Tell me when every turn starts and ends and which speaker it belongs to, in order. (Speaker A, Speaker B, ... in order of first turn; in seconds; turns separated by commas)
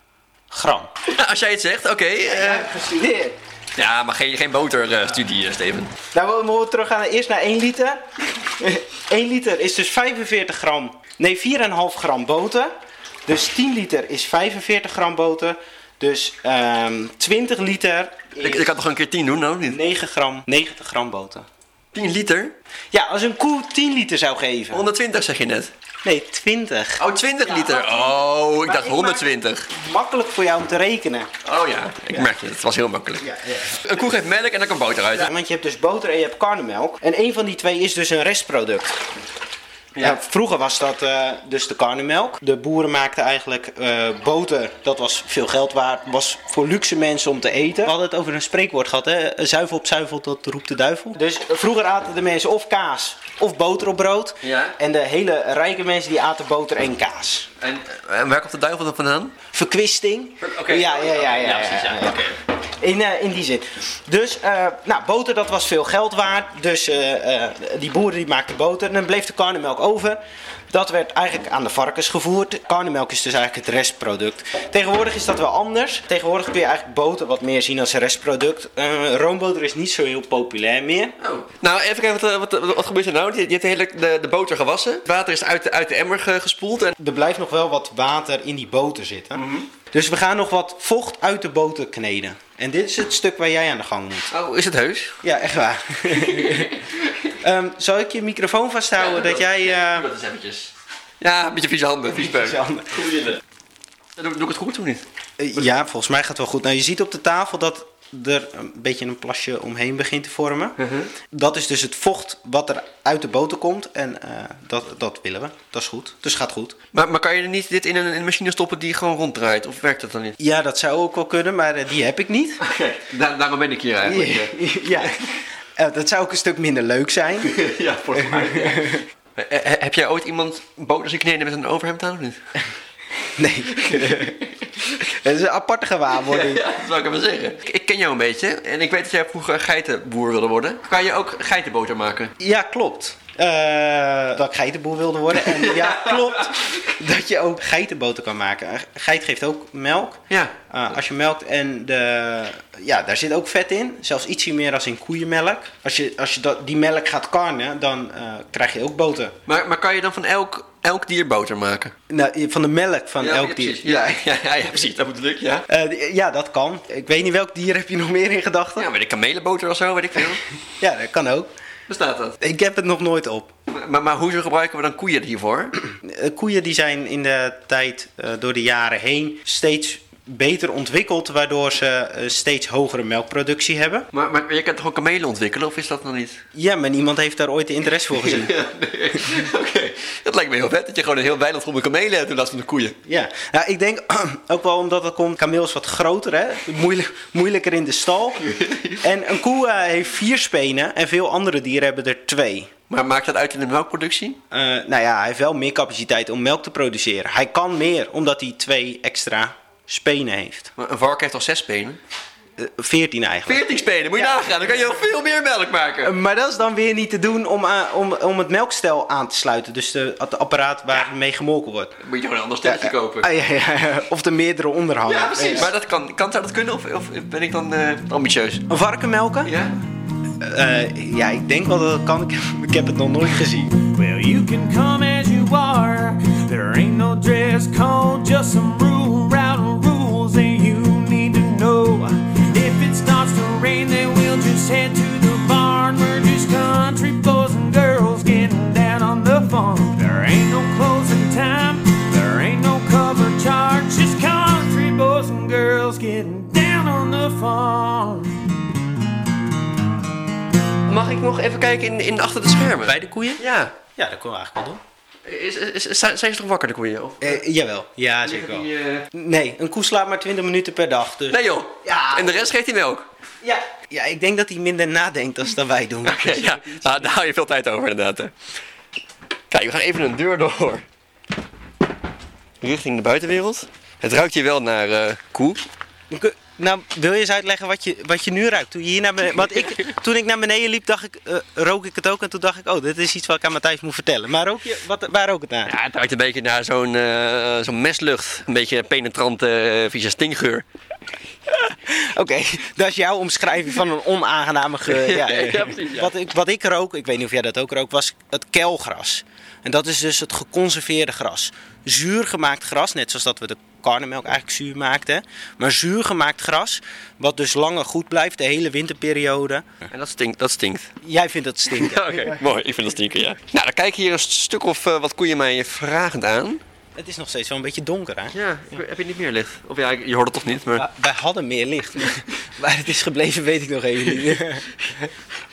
Speaker A: 0.5-0.9, Speaker B: 1.1-2.7, Speaker A: 2.2-3.4, Speaker B: 3.8-5.9, Speaker A: 6.1-12.7, Speaker A: 13.2-18.7, Speaker B: 18.4-19.8, Speaker A: 19.7-21.5, Speaker B: 21.9-22.5, Speaker A: 22.9-24.9, Speaker B: 24.7-25.7, Speaker A: 26.0-31.3, Speaker B: 27.0-29.7, Speaker B: 31.4-35.3, Speaker A: 33.2-34.0, Speaker A: 35.1-39.0, Speaker A: 40.0-57.5, Speaker B: 54.4-54.8, Speaker B: 57.6-59.4, Speaker A: 59.5-81.2, Speaker B: 60.4-62.4, Speaker B: 81.2-86.9, Speaker A: 87.0-94.3, Speaker B: 89.3-89.7, Speaker B: 94.3-95.2, Speaker A: 95.2-96.8, Speaker B: 96.1-97.3, Speaker A: 97.4-100.1, Speaker B: 99.0-103.4, Speaker A: 102.1-103.1, Speaker B: 104.2-105.0, Speaker A: 105.4-116.8, Speaker B: 110.8-111.1, Speaker B: 116.9-120.4, Speaker A: 120.4-122.6, Speaker B: 122.6-125.2, Speaker A: 124.0-125.2, Speaker A: 125.8-127.6, Speaker B: 127.4-132.4, Speaker A: 128.1-129.0, Speaker A: 133.3-136.7, Speaker B: 133.7-134.3, Speaker B: 136.2-142.3, Speaker A: 142.4-159.4, Speaker B: 145.5-146.8, Speaker B: 150.3-150.5, Speaker B: 159.5-161.9, Speaker A: 162.1-164.2, Speaker B: 163.2-165.7, Speaker A: 165.7-168.9, Speaker B: 168.8-170.4, Speaker A: 170.8-171.5, Speaker B: 171.9-172.4, Speaker A: 172.4-173.5, Speaker B: 173.7-175.8, Speaker A: 176.0-184.1, Speaker B: 184.1-186.4, Speaker A: 186.5-188.5, Speaker B: 188.1-193.0, Speaker A: 193.1-202.7, Speaker B: 198.4-199.0, Speaker B: 202.9-204.4, Speaker A: 204.5-210.7, Speaker B: 210.8-212.0, Speaker A: 212.6-214.6, Speaker B: 213.4-216.1, Speaker A: 216.0-222.0, Speaker B: 222.0-223.3, Speaker A: 222.6-225.7, Speaker B: 225.0-228.7, Speaker A: 228.7-229.5, Speaker B: 229.4-229.8, Speaker A: 230.4-233.8, Speaker C: 233.8-258.4, Speaker B: 260.9-263.7, Speaker A: 262.8-264.8, Speaker B: 265.2-267.4, Speaker A: 267.2-272.5, Speaker B: 268.2-269.1, Speaker B: 271.3-273.1, Speaker A: 273.4-277.2, Speaker B: 276.0-278.3, Speaker B: 279.5-280.8, Speaker B: 282.6-285.6, Speaker A: 286.1-295.7, Speaker B: 295.6-300.6, Speaker A: 301.9-319.7, Speaker B: 304.9-306.1, Speaker B: 319.9-320.9, Speaker A: 321.0-322.5, Speaker B: 321.7-326.6, Speaker A: 326.9-328.8, Speaker B: 328.3-330.9, Speaker A: 330.8-335.1